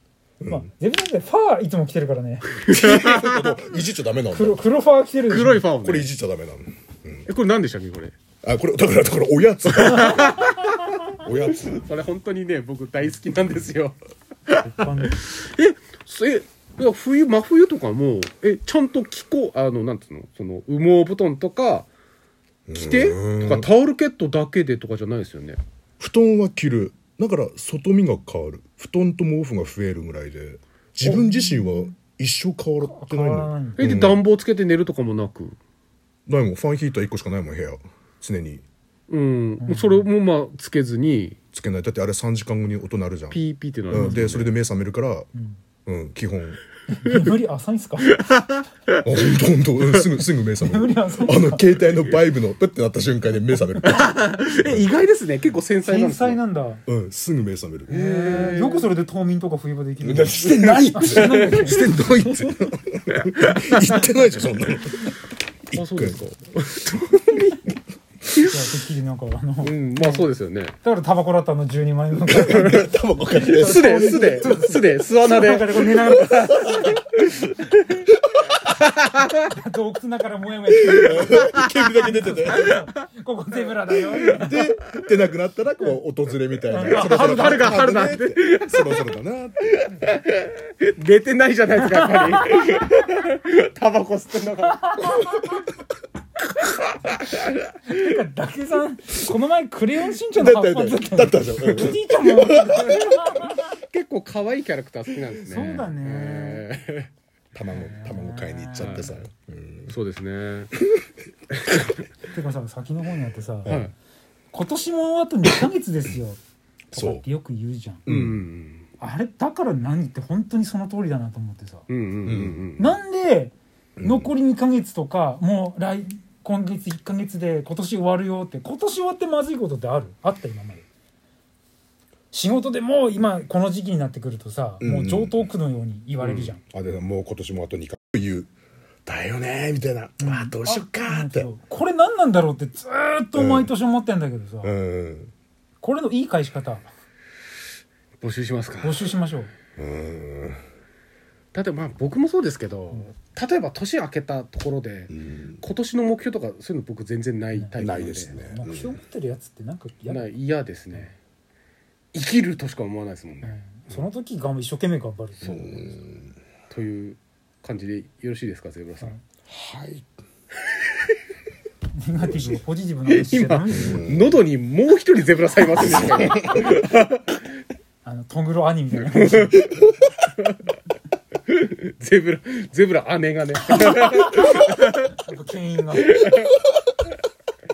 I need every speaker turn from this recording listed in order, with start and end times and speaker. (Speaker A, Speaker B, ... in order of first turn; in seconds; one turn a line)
Speaker A: 0.5-2.5
Speaker B: 2.6-3.5
Speaker C: 2.6-4.6
Speaker A: 4.3-5.7
Speaker B: 5.3-6.1
Speaker C: 5.8-7.3
Speaker B: 7.3-8.2
Speaker C: 8.4-10.5
Speaker B: 9.7-14.0
Speaker C: 11.2-11.9
Speaker B: 14.5-21.9
Speaker A: 14.7-15.2
Speaker C: 22.7-23.7
Speaker B: 22.8-25.6
Speaker C: 26.0-34.2
Speaker A: 31.0-31.9
Speaker A: 32.8-33.9
Speaker B: 33.8-35.6
Speaker C: 36.3-38.6
Speaker B: 39.1-41.4
Speaker A: 39.6-40.1
Speaker C: 41.5-45.3
Speaker B: 43.3-44.5
Speaker A: 43.9-44.2
Speaker C: 45.9-46.6
Speaker A: 46.9-48.2
Speaker B: 48.1-49.0
Speaker C: 49.0-54.9
Speaker A: 50.5-52.1
Speaker B: 53.8-56.4
Speaker A: 55.9-56.8
Speaker C: 56.9-58.0
Speaker A: 57.9-62.7
Speaker B: 57.9-58.9
Speaker C: 60.0-65.1
Speaker B: 61.1-61.5
Speaker B: 63.5-64.0
Speaker C: 65.7-66.2
Speaker B: 65.8-67.6
Speaker B: 68.3-68.8
Speaker A: 68.4-70.3
Speaker B: 69.6-70.7
Speaker A: 70.8-77.0
Speaker C: 72.3-73.9
Speaker B: 72.3-78.1
Speaker C: 76.5-76.8
Speaker B: 78.7-79.4
Speaker A: 79.5-84.6
Speaker C: 81.0-82.9
Speaker B: 81.2-81.9
Speaker B: 84.1-85.0
Speaker C: 84.4-89.9
Speaker A: 86.7-87.8
Speaker B: 86.9-89.0
Speaker B: 89.9-95.3
Speaker A: 91.8-92.5
Speaker A: 94.7-95.5
Speaker A: 97.9-103.7
Speaker C: 100.3-102.9
Speaker B: 101.7-101.9
Speaker B: 102.8-107.1
Speaker A: 105.4-106.7
Speaker C: 107.5-109.9
Speaker A: 107.7-109.2
Speaker B: 108.8-109.1
Speaker B: 109.9-110.7
Speaker B: 111.7-111.9
Speaker A: 112.2-113.8
Speaker C: 113.7-113.9
Speaker B: 113.7-113.9
Speaker A: 114.5-116.4
Speaker C: 116.9-117.2
Speaker A: 116.9-118.1
Speaker C: 118.1-118.4
Speaker B: 118.1-118.9
Speaker A: 119.0-121.9
Speaker B: 121.9-123.0
Speaker C: 122.2-122.7
Speaker A: 122.8-130.8
Speaker C: 124.0-124.3
Speaker A: 132.3-136.6
Speaker C: 134.8-135.4
Speaker B: 136.2-136.5
Speaker C: 136.6-138.5
Speaker C: 139.1-141.5
Speaker A: 140.2-144.8
Speaker C: 143.3-143.7
Speaker C: 144.6-145.3
Speaker A: 145.8-146.9
Speaker B: 148.2-149.1
Speaker A: 148.8-149.5
Speaker C: 149.8-150.6
Speaker B: 151.5-158.4
Speaker C: 155.1-155.6
Speaker A: 157.5-157.8
Speaker C: 157.8-159.0
Speaker A: 158.3-160.3
Speaker B: 160.1-161.2
Speaker B: 162.1-163.5
Speaker A: 163.4-165.9
Speaker B: 165.4-165.8
Speaker C: 165.4-166.3
Speaker B: 166.7-169.1
Speaker C: 169.5-170.1
Speaker A: 171.9-174.1
Speaker B: 173.1-177.4
Speaker C: 173.7-174.4
Speaker A: 178.1-179.5
Speaker B: 179.0-180.7
Speaker C: 179.6-179.9
Speaker B: 181.5-185.2
Speaker A: 185.2-186.2
Speaker B: 186.0-186.5